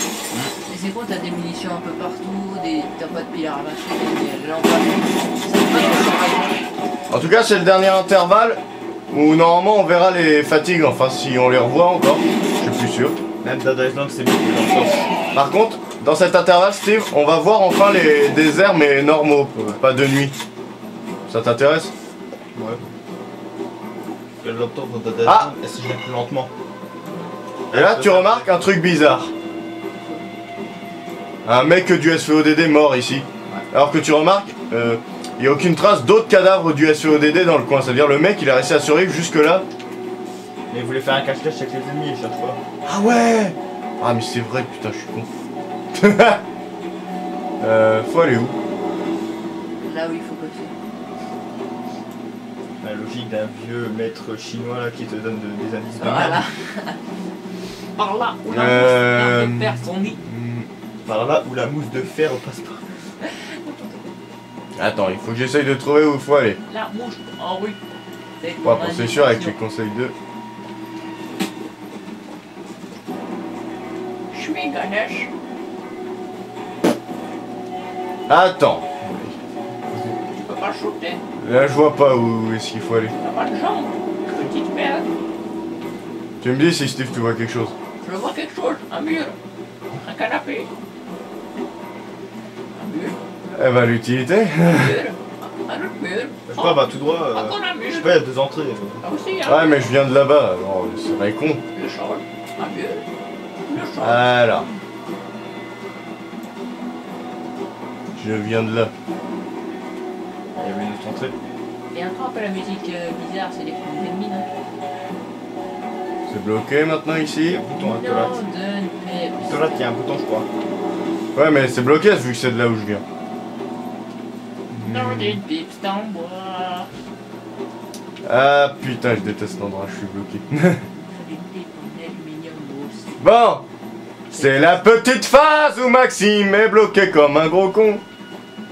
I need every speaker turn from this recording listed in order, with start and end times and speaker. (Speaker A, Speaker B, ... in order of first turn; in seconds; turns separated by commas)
Speaker A: 0.7-6.6, Speaker B: 7.1-13.2, Speaker C: 13.4-15.1, Speaker B: 15.3-20.4, Speaker B: 21.3-21.9, Speaker C: 22.5-22.8, Speaker C: 24.4-26.5, Speaker B: 25.2-25.5, Speaker A: 27.0-27.3, Speaker C: 27.7-28.5, Speaker B: 27.7-29.3, Speaker A: 30.0-30.2, Speaker B: 31.4-39.7, Speaker C: 40.7-42.6, Speaker B: 42.9-45.3, Speaker B: 45.9-46.4, Speaker B: 47.6-48.5, Speaker A: 49.8-50.7, Speaker C: 52.8-56.4, Speaker A: 56.0-57.0, Speaker A: 58.0-60.2, Speaker B: 58.5-60.7, Speaker C: 61.0-62.9, Speaker A: 63.2-64.0, Speaker B: 64.8-66.6, Speaker A: 66.7-67.8, Speaker A: 68.4-69.5, Speaker B: 68.6-70.1, Speaker A: 74.3-75.3, Speaker B: 78.3-79.3, Speaker A: 80.2-81.2, Speaker B: 81.4-83.1, Speaker A: 83.2-85.1, Speaker B: 86.4-87.7, Speaker A: 88.0-89.3, Speaker A: 90.0-90.7, Speaker A: 92.7-93.2, Speaker B: 93.5-95.0, Speaker A: 94.6-98.2, Speaker C: 96.5-99.0, Speaker A: 99.0-99.8, Speaker B: 99.4-101.6, Speaker A: 101.7-103.1, Speaker A: 103.7-104.7, Speaker B: 104.0-104.7, Speaker B: 108.1-108.9, Speaker C: 110.5-111.3, Speaker A: 111.9-114.5, Speaker B: 116.3-117.6, Speaker C: 117.4-118.3, Speaker A: 117.8-119.8, Speaker C: 119.4-120.5, Speaker B: 121.3-123.0, Speaker B: 124.7-125.4, Speaker A: 124.8-126.9, Speaker B: 128.2-130.8, Speaker A: 130.9-133.2, Speaker B: 133.2-133.6, Speaker B: 134.3-138.0, Speaker A: 134.3-134.7